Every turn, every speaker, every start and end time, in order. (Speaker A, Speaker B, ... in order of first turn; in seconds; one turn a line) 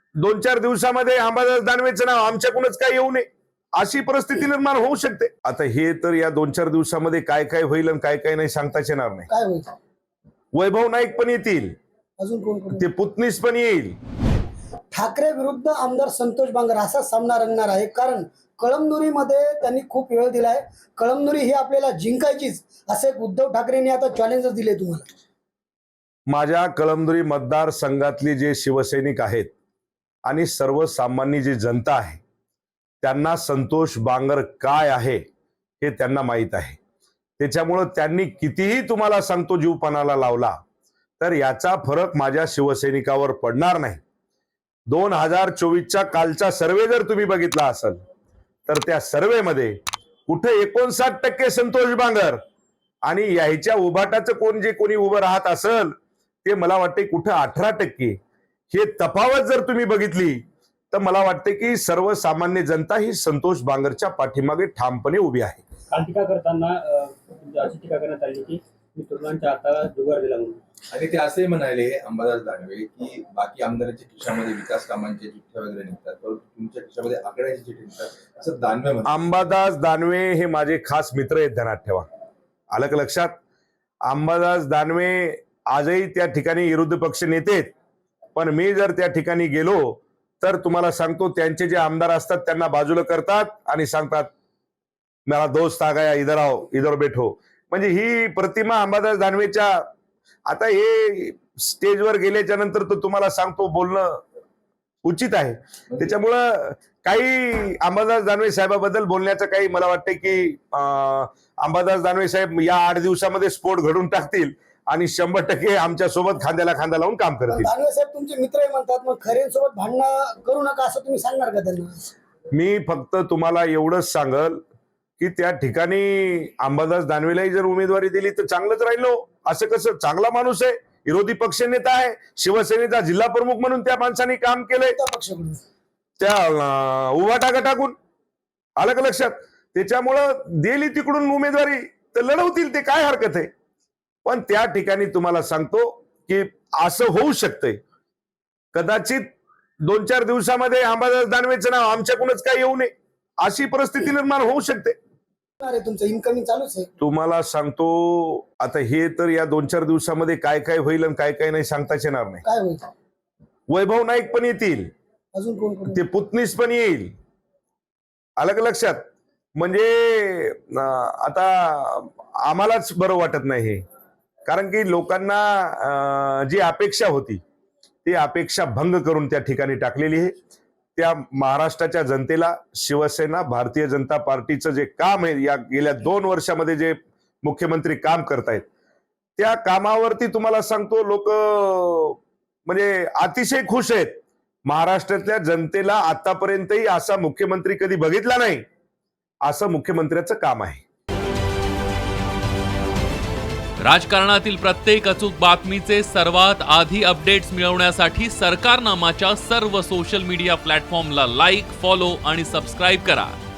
Speaker A: 0.2-3.2
Speaker A: 3.8-9.3
Speaker B: 9.3-9.7
Speaker A: 10.5-11.7
Speaker B: 12.2-12.8
Speaker A: 12.8-14.0
Speaker B: 14.9-25.1
Speaker A: 26.3-29.5
Speaker A: 30.2-32.2
Speaker A: 33.0-35.2
Speaker A: 35.8-36.8
Speaker A: 37.4-40.6
Speaker A: 41.2-44.0
Speaker A: 44.9-48.0
Speaker A: 48.7-52.4
Speaker A: 53.0-58.2
Speaker A: 58.7-65.6
Speaker C: 65.9-70.6
Speaker D: 70.9-79.1
Speaker A: 79.0-82.1
Speaker A: 82.7-83.3
Speaker A: 84.0-87.7
Speaker A: 88.3-94.3
Speaker A: 95.3-99.9
Speaker A: 100.5-104.2
Speaker A: 105.0-117.7
Speaker B: 117.5-122.1
Speaker A: 122.5-124.6
Speaker A: 125.2-134.9
Speaker B: 134.9-135.6
Speaker A: 136.2-137.9
Speaker A: 138.8-143.5
Speaker A: 144.2-147.8
Speaker A: 148.7-149.3
Speaker A: 149.8-154.9
Speaker B: 155.6-156.9
Speaker A: 157.0-162.4
Speaker B: 162.4-162.8
Speaker A: 163.7-164.9
Speaker B: 165.3-166.0
Speaker A: 165.9-167.1
Speaker A: 168.4-173.8
Speaker A: 174.4-177.4
Speaker A: 178.0-180.3
Speaker A: 180.9-188.6
Speaker A: 189.4-198.6
Speaker A: 199.4-200.8
Speaker E: 203.8-213.3